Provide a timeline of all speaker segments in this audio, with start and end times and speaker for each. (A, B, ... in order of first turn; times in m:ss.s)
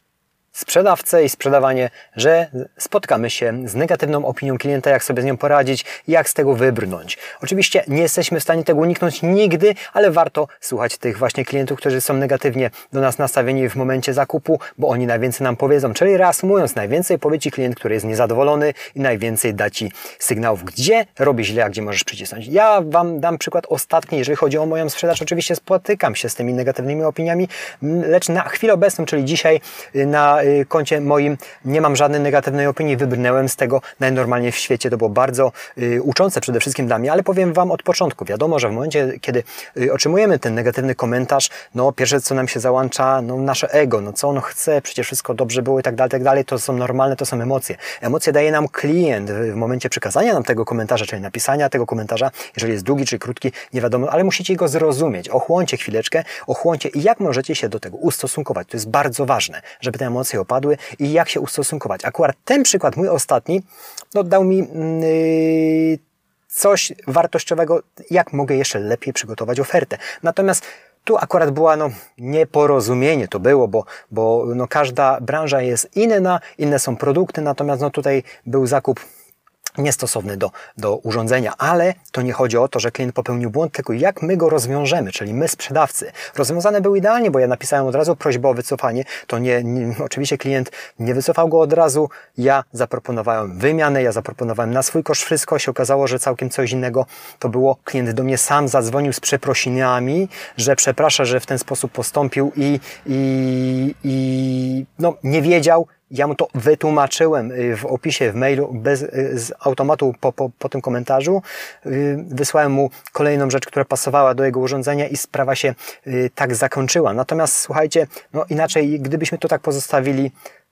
0:00.5-1:19.0 A
1:19.8-2:00.3 A